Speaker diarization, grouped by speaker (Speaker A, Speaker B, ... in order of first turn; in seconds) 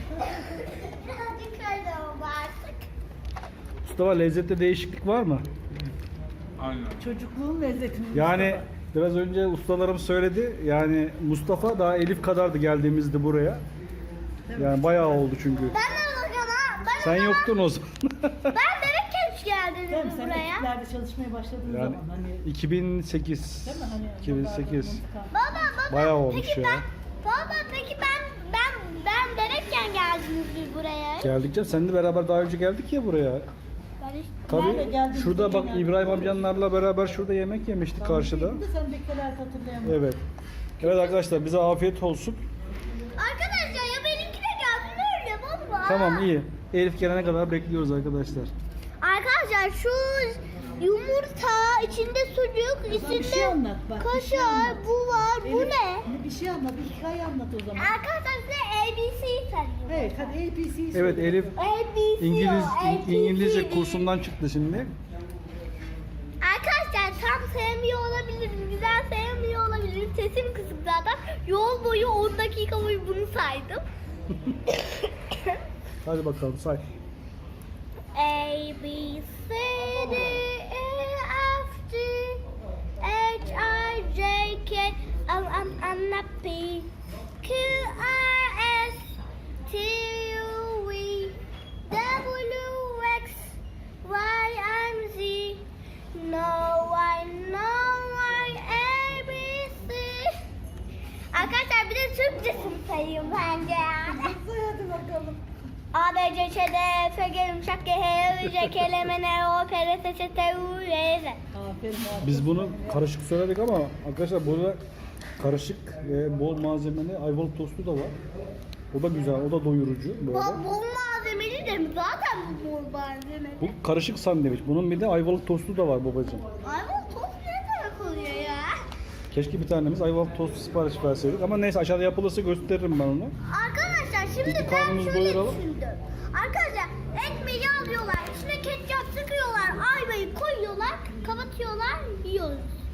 Speaker A: 0.2-2.9, 15.7-17.5, 18.5-20.7, 25.3-31.3, 34.0-34.9, 40.9-41.1, 43.2-46.3, 49.0-56.1, 57.8-60.4, 61.5-64.1, 66.4-73.8, 74.7-75.6, 78.1-82.4, 83.0-86.9, 87.4-89.1, 89.7-91.4, 91.9-100.4, 101.3-104.4, 105.9-111.4, 120.3-123.7, 126.6-128.8, 133.5-142.7
Speaker B: 3.9-5.5, 6.6-7.0, 8.1-13.6, 14.6-15.8, 17.0-18.5, 21.7-25.0, 25.9-26.9, 31.2-33.5, 34.5-38.6, 39.8-40.2, 40.8-42.4, 45.8-48.5, 60.9-61.6, 62.2-64.9, 76.0-76.8, 112.2-114.8, 115.4-118.2, 118.9-120.6, 123.6-126.4, 129.3-133.3, 134.4-135.6
Speaker C: 7.0-8.6, 14.5-15.0, 19.9-22.4, 23.7-25.3, 34.6-36.0, 38.0-40.0, 52.9-54.8, 55.4-58.0, 59.9-61.5, 104.1-105.4, 111.5-112.9